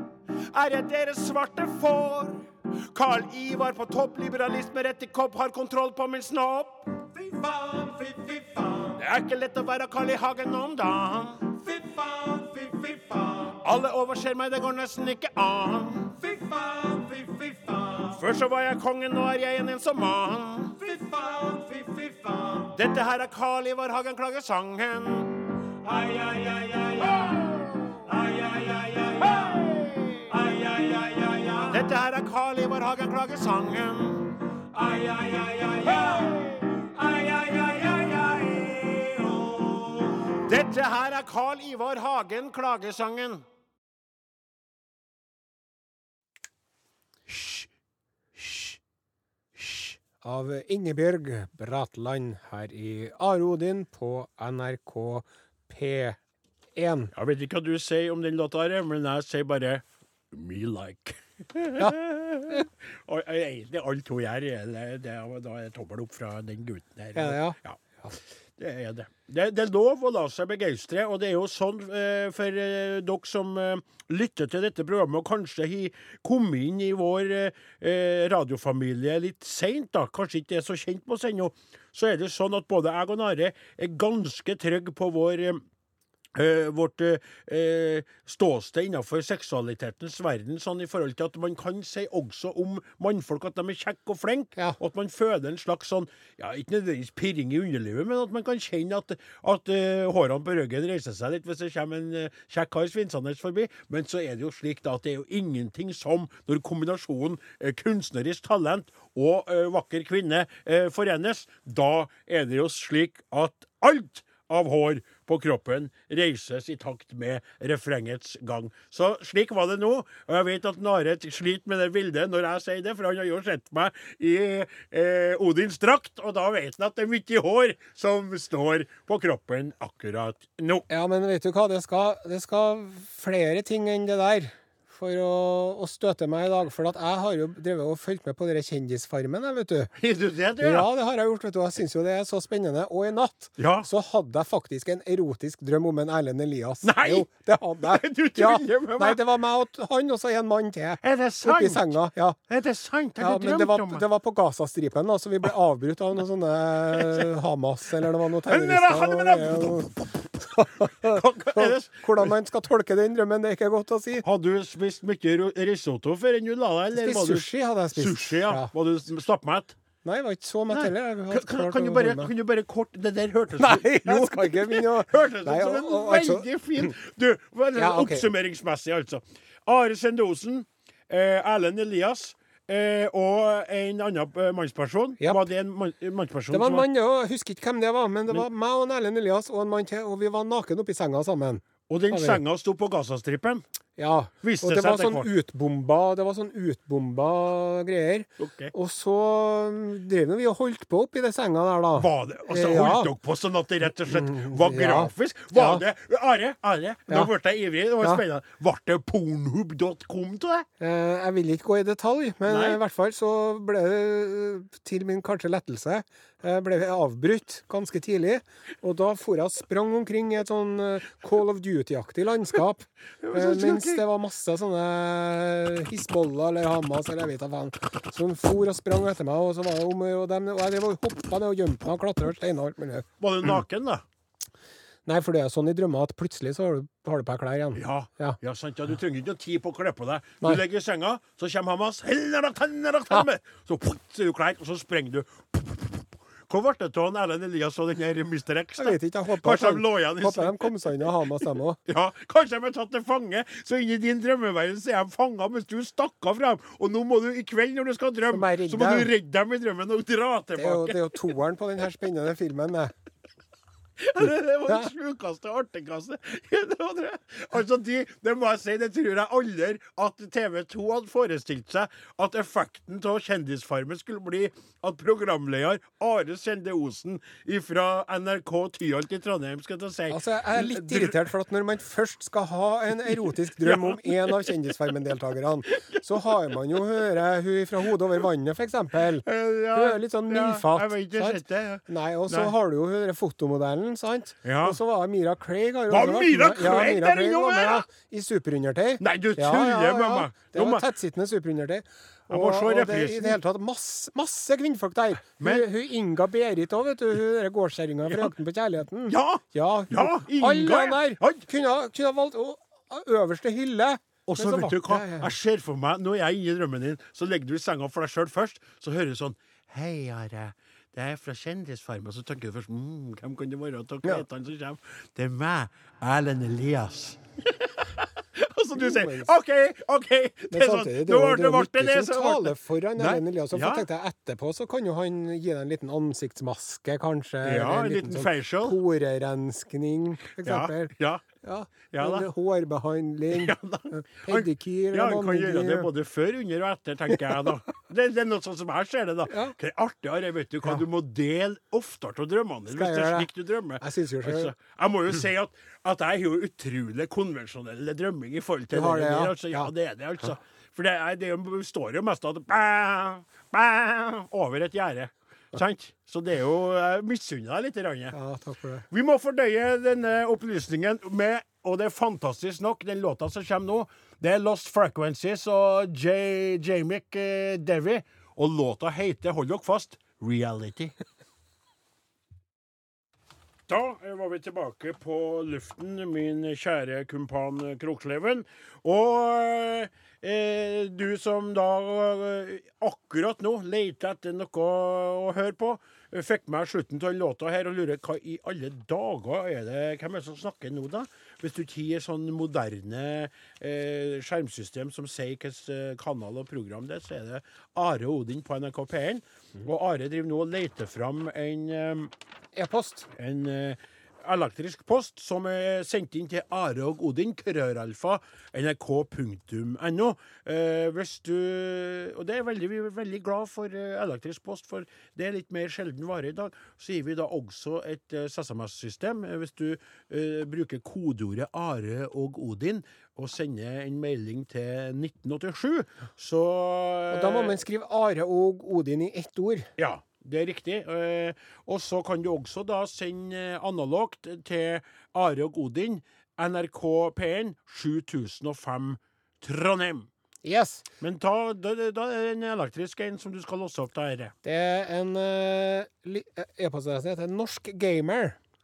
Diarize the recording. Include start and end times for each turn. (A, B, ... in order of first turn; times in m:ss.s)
0:00.5-0:06.9 A
0:07.1-0:09.0 B
0:08.9-0:11.5 A
0:11.6-0:13.6 B
0:13.6-0:16.2 A
0:16.2-0:18.2 B
0:18.1-0:20.8 A
0:20.8-0:22.8 B
0:22.7-0:25.4 A
0:25.8-0:29.7 B
0:29.6-0:30.2 A
0:30.2-0:31.8 B
0:31.7-0:34.4 A
0:34.7-0:40.4 B
0:40.4-0:43.4 A
0:47.3-0:47.7 A
0:48.4-0:48.8 A
0:49.5-0:50.0 A
0:50.2-0:56.2 C
0:56.8-0:57.1 C
0:57.1-1:07.8 A
1:07.1-1:07.6 C
1:08.6-1:25.6 A
1:26.4-2:10.9 A
2:10.9-2:19.9 C
2:20.0-2:20.9 A
2:20.6-2:32.4 C
2:23.6-2:23.9 A
2:26.8-2:27.3 A
2:27.8-2:29.2 A
2:31.0-2:31.9 A
2:32.5-2:34.0 A
2:33.2-2:44.2 C
2:38.4-2:40.2 A
2:41.0-2:42.3 A
2:44.2-2:49.8 A
2:46.9-2:48.7 C
2:50.0-2:52.3 C
2:50.7-3:06.9 A
2:53.6-2:56.5 C
2:57.8-2:58.2 C
3:06.5-3:12.4 C
3:11.9-3:13.6 A
3:14.0-3:23.1 C
3:14.4-3:15.3 A
3:18.4-3:18.7 A
3:22.0-3:30.6 A
3:24.1-3:25.8 C
3:30.8-3:53.0 C
3:32.5-3:32.8 A
3:43.2-3:44.0 A
3:53.2-3:54.0 A
3:55.0-3:58.4 C
3:57.7-4:10.7 A
4:08.8-4:11.8 C
4:11.9-4:21.1 A
4:18.3-4:19.1 C
4:20.6-4:22.9 C
4:24.0-4:41.2 A
4:40.1-5:15.3 C
4:43.6-4:44.6 A
4:49.2-4:52.5 A
4:54.4-4:54.8 A
4:55.9-4:57.8 A
4:59.0-5:00.9 A
5:02.3-5:03.4 A
5:05.4-5:05.7 A
5:08.0-5:08.3 A
5:09.0-5:11.4 A
5:14.3-5:33.8 A
5:28.8-5:29.3 C
5:30.5-5:40.9 C
5:37.4-5:38.8 A
5:40.4-5:41.2 A
5:41.4-5:45.9 C
5:41.9-5:42.3 A
5:43.3-6:08.2 A
5:49.3-5:49.5 C
5:52.7-5:53.3 C
5:53.8-5:54.5 C
5:58.7-5:59.7 C
6:08.1-6:08.9 C
6:08.9-6:20.9 A
6:23.7-6:52.1 A
6:52.5-6:53.1 C
6:53.1-7:17.6 A
7:17.1-7:19.7 C
7:19.8-7:30.1 A
7:30.4-7:30.8 C
7:31.0-7:34.3 A
7:34.4-7:38.4 C